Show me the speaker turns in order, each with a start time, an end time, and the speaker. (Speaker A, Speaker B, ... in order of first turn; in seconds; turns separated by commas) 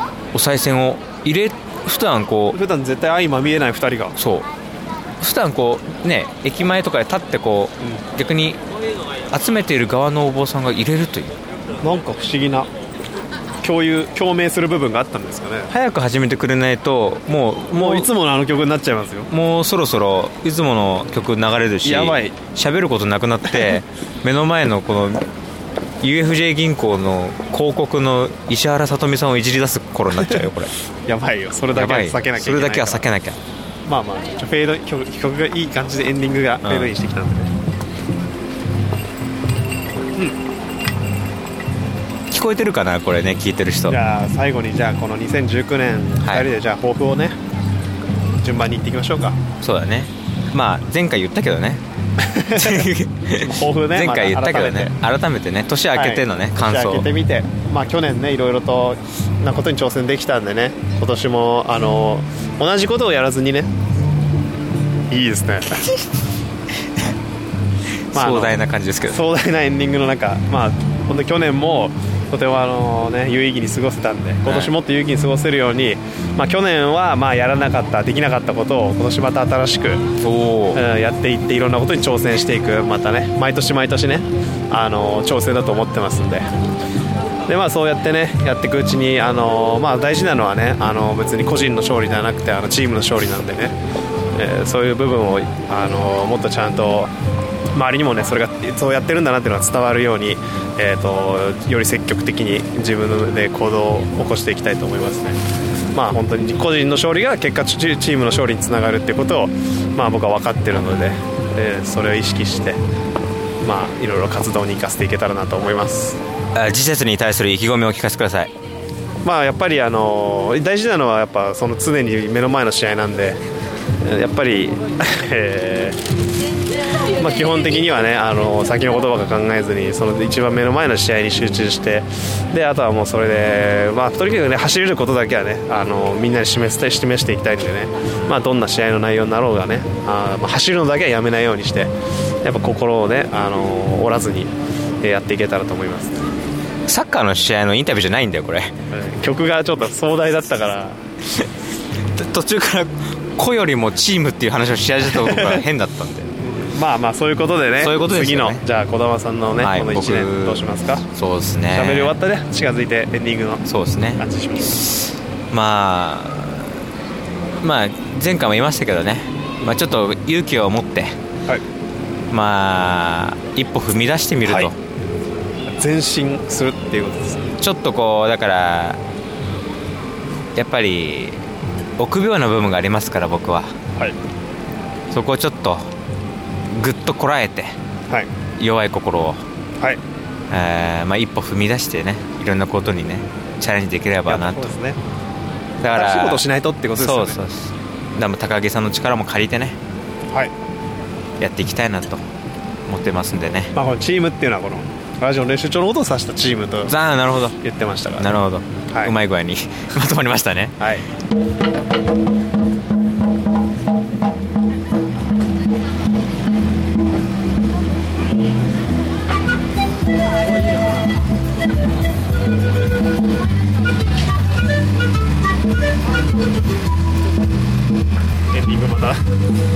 Speaker A: 0.3-2.6, Speaker B: 2.5-4.2, Speaker A: 4.2-4.5, Speaker A: 5.2-8.6, Speaker A: 9.3-11.4, Speaker B: 11.8-12.7, Speaker B: 13.6-15.7, Speaker A: 15.7-18.1, Speaker B: 17.7-19.3, Speaker A: 19.3-25.2, Speaker B: 21.8-22.4, Speaker A: 26.0-30.7, Speaker B: 30.2-30.5, Speaker B: 31.1-33.1, Speaker A: 31.7-33.4, Speaker B: 33.9-37.5, Speaker A: 36.6-36.9, Speaker A: 42.3-44.0, Speaker B: 43.9-47.4, Speaker A: 46.2-46.5, Speaker B: 48.4-49.4, Speaker A: 49.6-51.8, Speaker B: 52.2-54.9, Speaker A: 52.5-57.1, Speaker B: 55.9-63.7, Speaker B: 65.1-65.9, Speaker A: 68.1-69.2, Speaker B: 68.1-80.0, Speaker A: 74.5-74.7, Speaker A: 80.2-80.8, Speaker B: 80.7-86.5, Speaker B: 87.5-93.8, Speaker B: 94.3-97.1, Speaker B: 97.7-105.4, Speaker B: 105.9-112.8, Speaker B: 113.6-116.2, Speaker A: 116.5-118.5, Speaker B: 119.2-123.4, Speaker B: 124.0-126.0, Speaker B: 127.2-146.2, Speaker A: 146.9-148.8, Speaker B: 148.9-151.0, Speaker A: 152.1-156.3, Speaker B: 155.1-155.7, Speaker B: 156.4-161.1, Speaker A: 157.8-158.7, Speaker A: 159.6-162.2, Speaker B: 161.7-163.6, Speaker A: 163.7-166.8, Speaker B: 164.2-164.8, Speaker A: 167.6-171.2, Speaker A: 172.3-174.8, Speaker B: 174.4-174.7, Speaker B: 175.7-177.5, Speaker A: 177.6-179.0, Speaker A: 180.6-181.4, Speaker A: 182.0-183.8, Speaker A: 185.1-185.9, Speaker A: 186.7-187.8, Speaker A: 188.6-189.4, Speaker A: 190.5-194.7, Speaker B: 194.3-195.0, Speaker A: 195.8-199.8, Speaker B: 195.9-197.4, Speaker A: 201.4-202.2, Speaker A: 202.9-203.8, Speaker B: 203.7-206.9, Speaker A: 206.9-207.6, Speaker B: 207.6-208.3, Speaker A: 208.2-210.8, Speaker B: 210.8-211.1, Speaker B: 228.5-229.2